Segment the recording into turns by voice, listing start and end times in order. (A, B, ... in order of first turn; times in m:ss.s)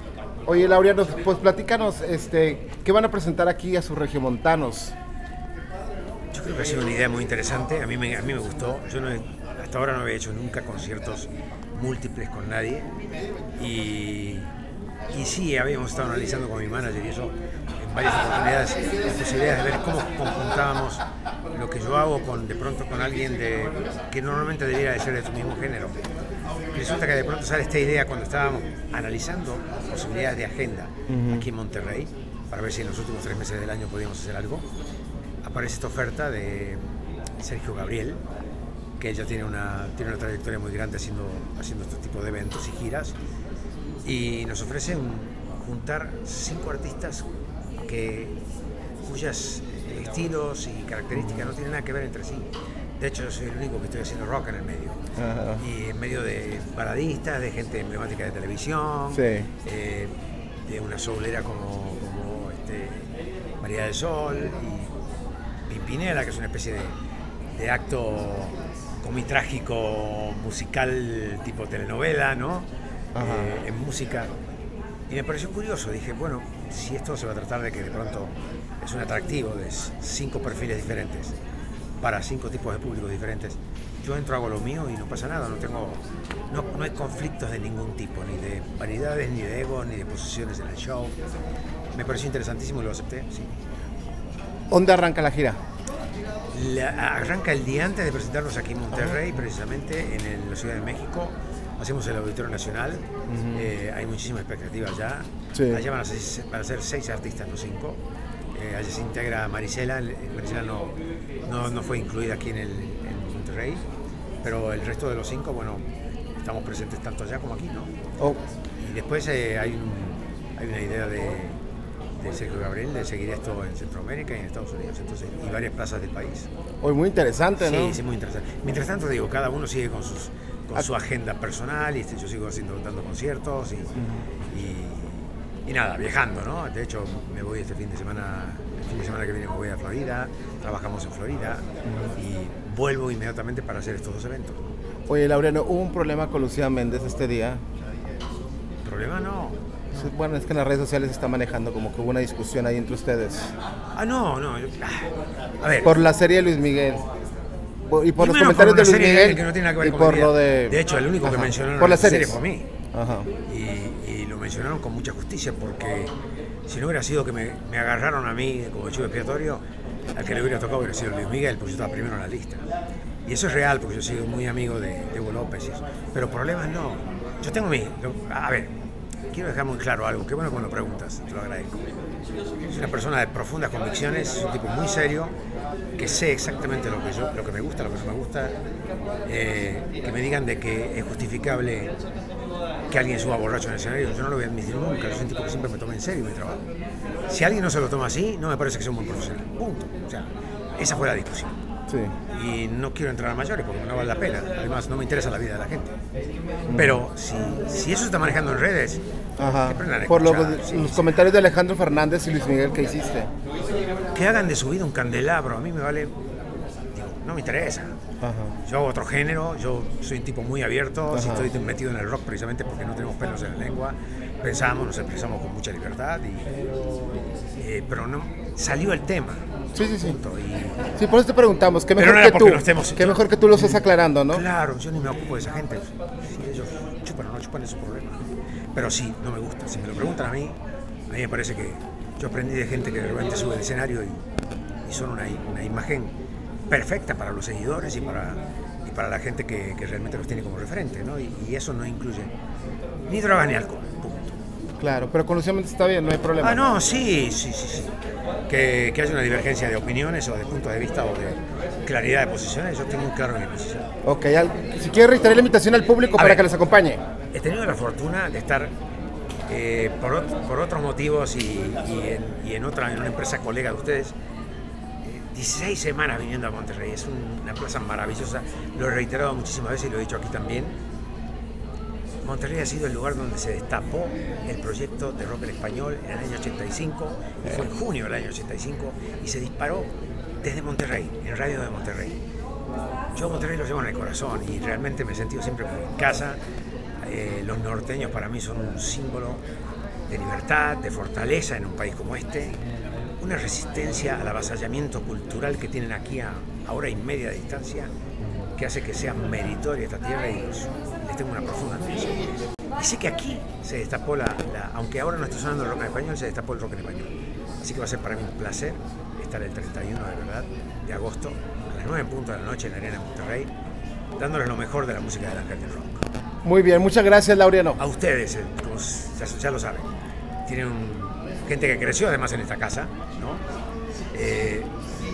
0:00.4-0:04.9 A
0:06.3-0:12.9 B
0:13.6-0:14.5 B
0:15.1-0:26.0 B
0:26.7-0:34.7 B
0:31.1-0:31.5 A
0:35.4-0:36.8 B
0:37.4-0:38.2 B
0:39.0-0:43.2 B
0:44.0-0:47.2 B
0:47.9-0:48.4 B
0:49.0-0:52.5 B
0:53.0-0:55.0 B
0:55.2-0:55.6 A
0:55.6-1:00.1 B
0:59.1-0:59.5 A
1:00.7-1:03.1 B
1:03.6-1:04.9 B
1:05.7-1:07.0 B
1:07.5-1:12.7 B
1:13.2-1:13.6 A
1:13.2-1:14.3 B
1:15.1-1:21.3 B
1:22.0-1:31.2 B
1:31.9-1:33.6 B
1:34.7-1:35.6 A
1:36.5-1:48.0 B
1:43.3-1:43.6 A
1:45.5-1:45.8 A
1:48.5-1:53.8 B
1:54.4-1:57.9 B
1:58.8-2:01.6 B
2:02.2-2:06.5 B
2:06.8-2:08.0 A
2:07.6-2:13.9 B
2:14.0-2:14.2 A
2:14.5-2:21.6 B
2:21.8-2:22.1 A
2:22.2-2:24.7 B
2:25.1-2:27.6 A
2:28.8-2:30.1 B
2:29.9-2:33.5 A
2:33.9-2:35.9 B
2:35.8-2:37.0 A
2:37.8-2:42.4 A
2:38.2-2:42.7 B
2:42.9-2:43.3 A
2:43.5-2:46.1 B
2:46.7-2:49.6 B
2:50.1-2:52.7 B
2:53.2-2:58.7 B
2:59.3-3:01.9 B
3:02.7-3:05.3 B
3:06.0-3:08.6 B
3:09.2-3:11.9 B
3:12.9-3:16.6 B
3:17.3-3:21.6 B
3:21.9-3:22.1 A
3:22.3-3:25.9 B
3:26.7-3:27.0 A
3:26.7-3:31.3 B
3:29.4-3:33.3 A
3:34.1-3:36.1 B
3:36.9-3:38.0 B
3:38.2-3:38.6 A
3:38.6-3:46.6 B
3:41.1-3:41.5 A
3:47.6-3:49.4 B
3:49.8-3:50.2 A
3:50.0-3:50.8 B
3:51.0-3:54.4 A
3:52.0-3:58.2 B
3:58.7-4:00.6 B
4:01.1-4:04.2 B
4:04.9-4:06.1 B
4:06.7-4:12.3 B
4:13.1-4:14.4 B
4:14.8-4:16.7 A
4:16.4-4:17.9 B
4:18.5-4:23.9 B
4:24.0-4:27.0 A
4:26.2-4:26.5 B
4:27.3-4:28.7 B
4:29.5-4:34.1 B
4:35.0-4:40.8 B
4:42.2-4:52.2 B
4:53.1-4:56.4 B
4:57.0-4:59.4 B
5:00.1-5:02.6 B
5:03.2-5:07.9 B
5:08.6-5:12.2 B
5:12.8-5:17.1 B
5:17.6-5:23.5 B
5:24.2-5:26.0 B
5:26.4-5:27.8 A
5:27.8-5:29.9 B
5:30.4-5:33.4 B
5:34.1-5:34.7 B